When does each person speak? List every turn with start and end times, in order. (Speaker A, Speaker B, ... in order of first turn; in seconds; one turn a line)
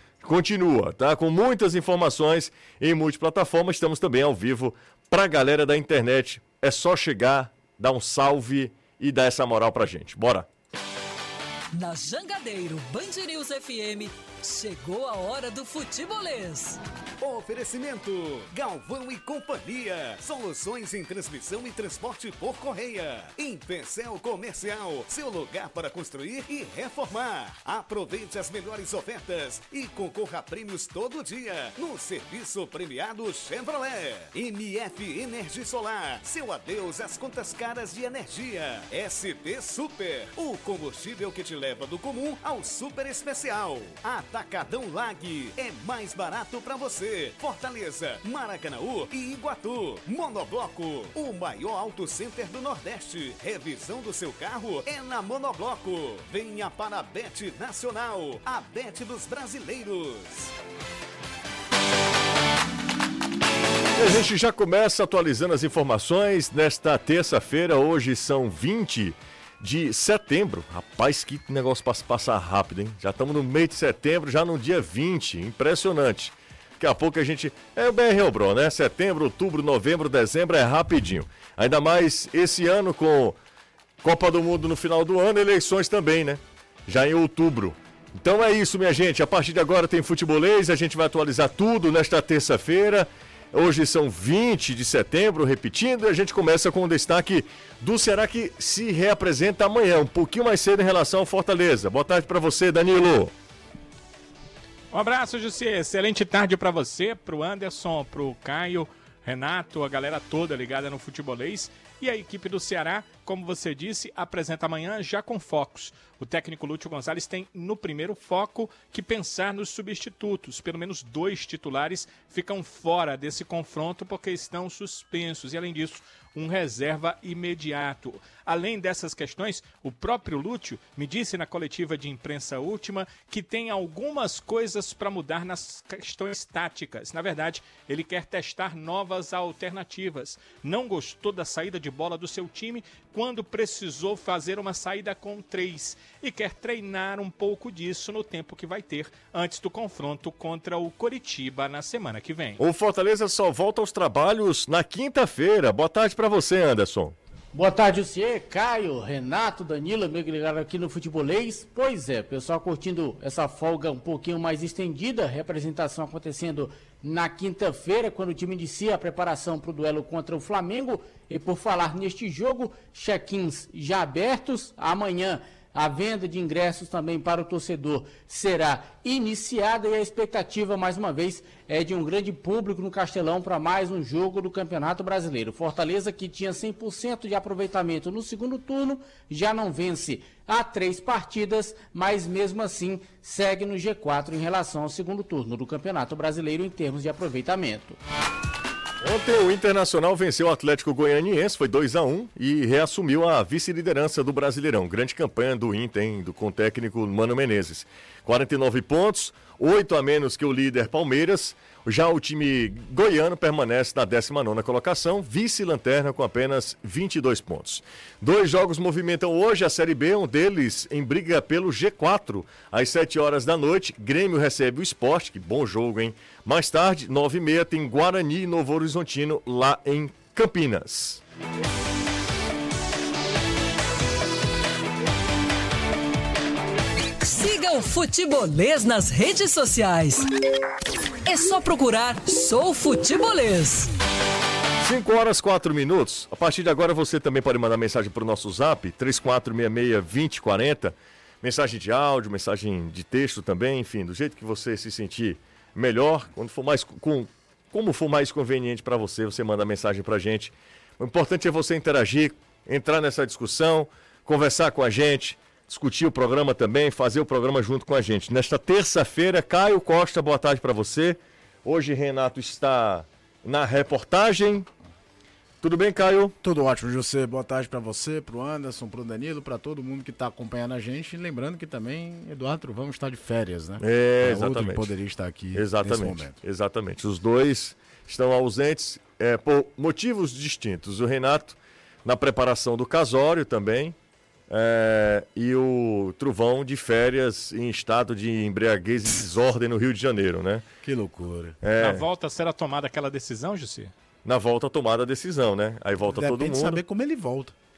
Speaker A: 0.2-10.5
Speaker B: 11.7-16.8
Speaker C: 17.2-60.5
Speaker A: 64.0-83.4
Speaker A: 84.0-103.3
Speaker D: 104.9-152.6
Speaker A: 152.6-157.2
Speaker E: 157.5-198.0
Speaker A: 199.0-231.2
Speaker B: 237.2-240.3
Speaker B: 241.2-243.9
Speaker A: 244.8-274.7
Speaker A: 275.6-276.4
Speaker F: 276.4-286.4
Speaker A: 283.8-284.9
Speaker A: 285.5-294.0
Speaker A: 294.5-300.6
Speaker F: 300.8-301.6
Speaker A: 301.6-302.0
Speaker D: 301.8-303.9
Speaker A: 304.2-306.8
Speaker F: 306.1-307.5